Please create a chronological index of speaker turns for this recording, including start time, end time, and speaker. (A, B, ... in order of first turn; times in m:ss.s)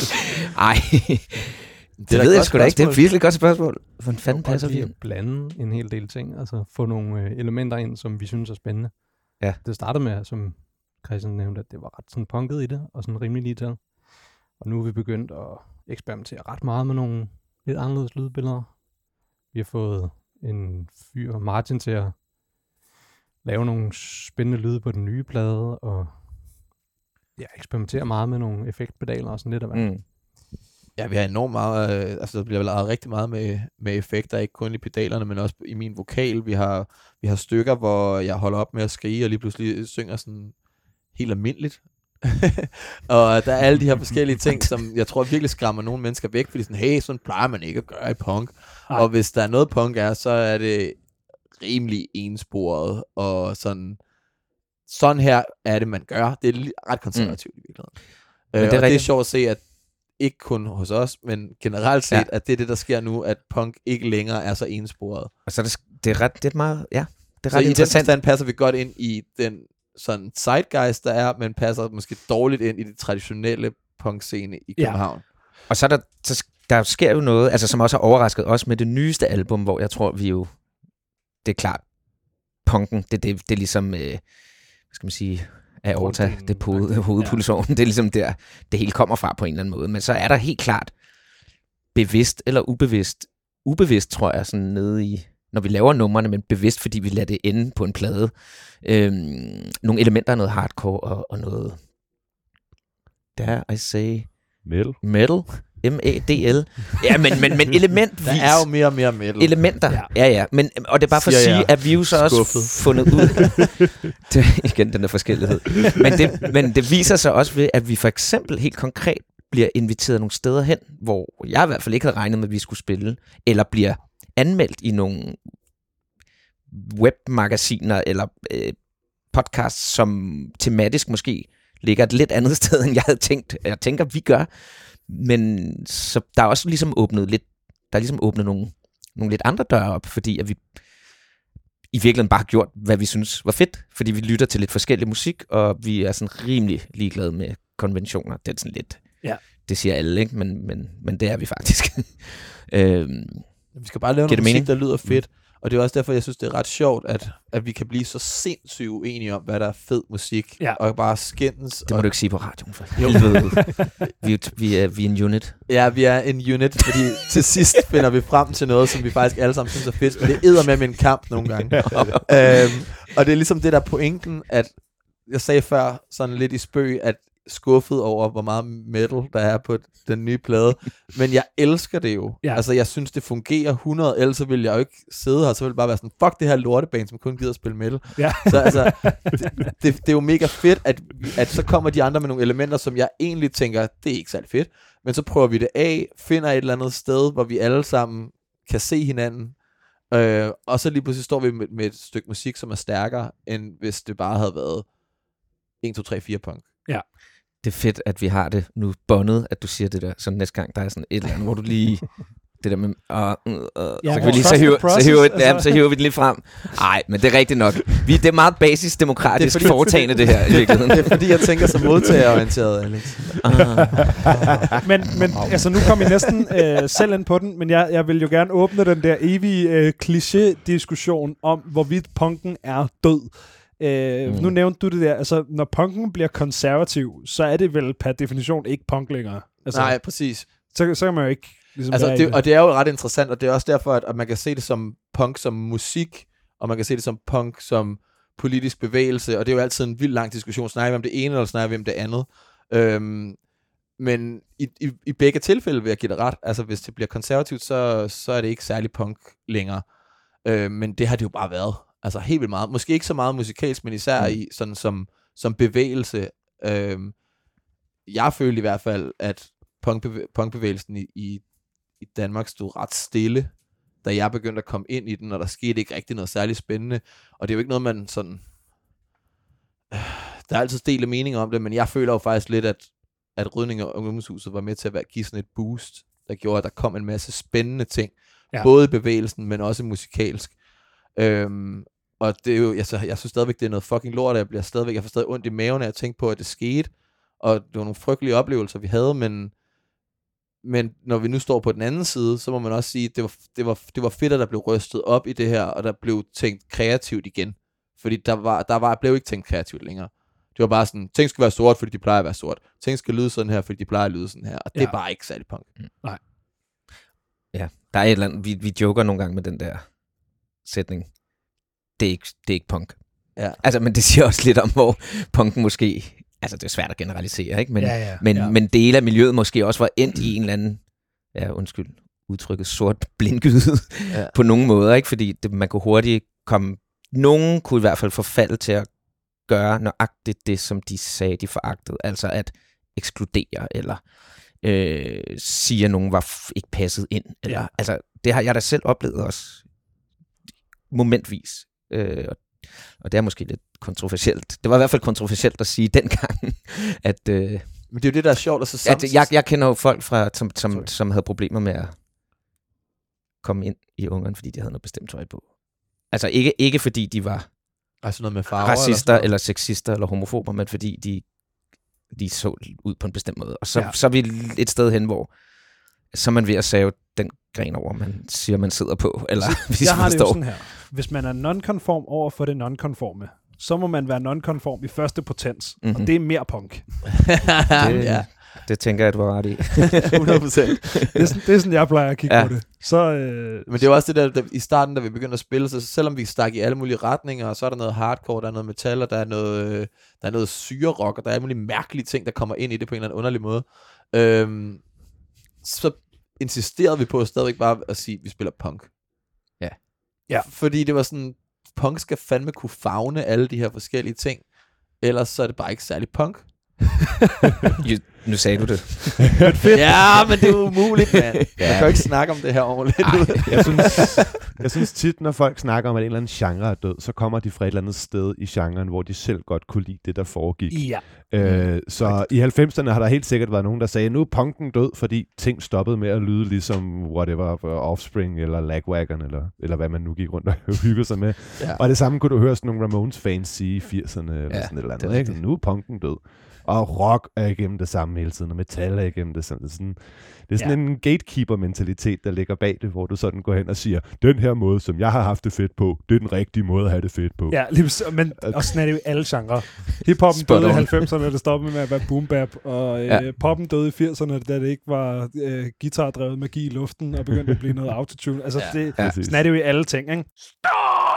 0:00.6-0:04.9 A
0:02.0-0:03.3 B
0:04.3-0:22.2 C
0:23.4-0:26.7 C
0:27.3-0:30.1 C
0:29.7-0:30.0 A
0:31.0-0:54.1 B
0:54.8-1:05.3 B
0:57.1-0:58.0 A
0:58.5-0:59.1 A
1:05.4-1:08.2 A
1:07.5-1:15.2 B
1:14.8-1:15.0 D
1:15.7-1:31.0 A
1:25.9-1:27.4 D
1:31.9-1:41.9 A
1:43.3-2:05.6 A
1:44.6-1:45.7 E
1:48.2-1:49.8 B
1:49.9-1:50.1 D
1:51.1-1:53.4 B
2:06.7-2:21.3 A
2:21.9-2:34.8 A
2:33.7-2:43.9 B
2:41.8-2:45.9 A
2:45.7-3:25.0 B
2:51.7-2:52.5 E
2:51.8-2:52.6 A
3:08.2-3:09.5 D
3:25.8-3:26.8 B
3:27.6-3:41.4 A
3:34.0-3:36.1 D
3:34.1-3:34.8 B
3:39.4-3:43.7 B
3:43.4-3:44.2 A
3:44.3-4:02.4 D
3:45.3-3:45.8 A
3:54.2-3:54.6 A
3:59.7-4:00.5 B
4:01.9-4:27.3 B
4:24.2-4:24.4 A
4:28.0-4:38.5 B
4:39.9-4:59.6 B
5:00.6-5:15.7 B
5:14.7-5:15.2 D
5:17.5-5:49.9 A
5:23.4-5:23.6 B
5:27.8-5:28.2 D
5:34.1-5:34.3 B
5:47.4-5:47.7 D
5:50.9-6:02.0 A
5:57.9-5:59.9 B
6:03.4-6:08.0 A
6:08.0-6:09.3 B
6:08.6-6:20.7 A
6:19.4-6:27.4 D
6:25.8-6:26.8 A
6:27.6-6:28.9 B
6:27.8-6:30.2 A
6:30.1-6:31.2 B
6:31.1-6:33.9 D
6:31.6-6:32.6 A
6:33.7-6:48.9 B
6:49.6-6:49.9 A
6:50.4-6:56.9 B
6:57.8-7:00.8 A
6:59.4-6:59.8 D
6:59.7-7:04.5 B
7:01.6-7:01.9 A
7:01.6-7:01.9 E
7:03.0-7:04.1 A
7:03.4-7:39.3 E
7:10.7-7:11.0 D
7:11.4-7:12.3 A
7:21.6-7:21.8 B
7:24.5-7:25.5 A
7:30.6-7:30.8 D
7:37.5-7:50.4 D
7:40.2-7:41.2 A
7:43.0-7:43.4 A
7:48.5-7:48.8 B
7:49.0-7:49.2 A
7:49.0-7:49.5 E